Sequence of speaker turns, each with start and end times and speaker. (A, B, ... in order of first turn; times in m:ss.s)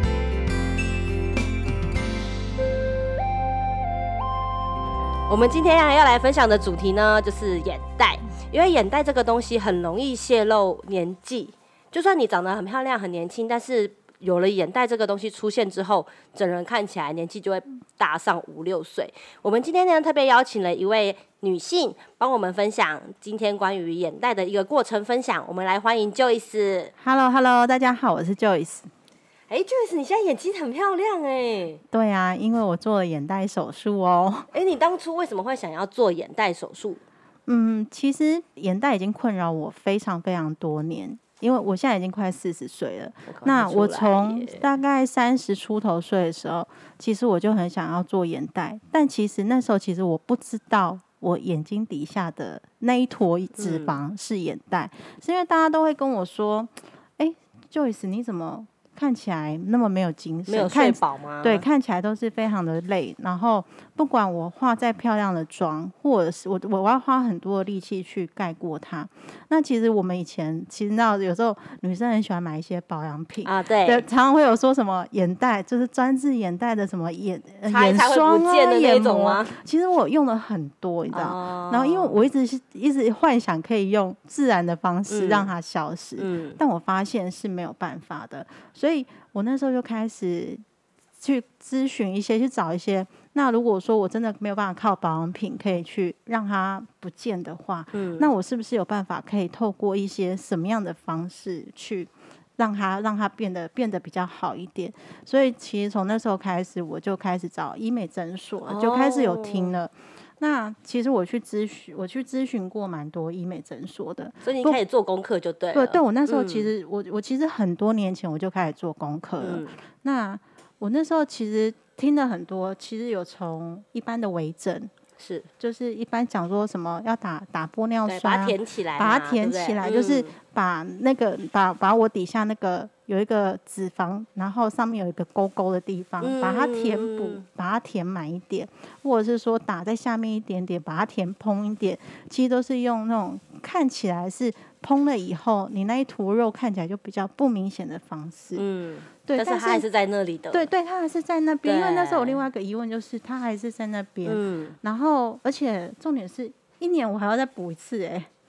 0:05.3-0:26.9 A
0:27.0-0:28.9 B
0:29.5-0:31.8 A
0:31.9-0:34.5 B
0:34.5-0:37.0 A
0:37.5-1:30.6 B
0:43.3-0:44.6 A
0:53.6-0:54.0 A
1:00.5-1:01.7 A
1:13.4-1:14.1 A
1:17.7-1:19.6 A
1:21.1-1:22.2 A
1:25.1-1:25.5 A
1:26.2-1:26.6 A
1:31.2-1:54.8 B
1:37.9-1:38.3 A
1:48.7-1:49.8 A
1:54.4-1:56.7 A
1:55.7-2:04.9 B
1:59.4-1:59.8 A
2:05.2-2:05.5 A
2:05.6-2:28.6 B
2:08.1-2:10.4 A
2:16.2-2:17.4 A
2:28.6-2:30.7 A
2:29.3-2:29.9 B
2:30.5-2:38.3 B
2:31.6-2:32.4 A
2:34.2-2:34.8 A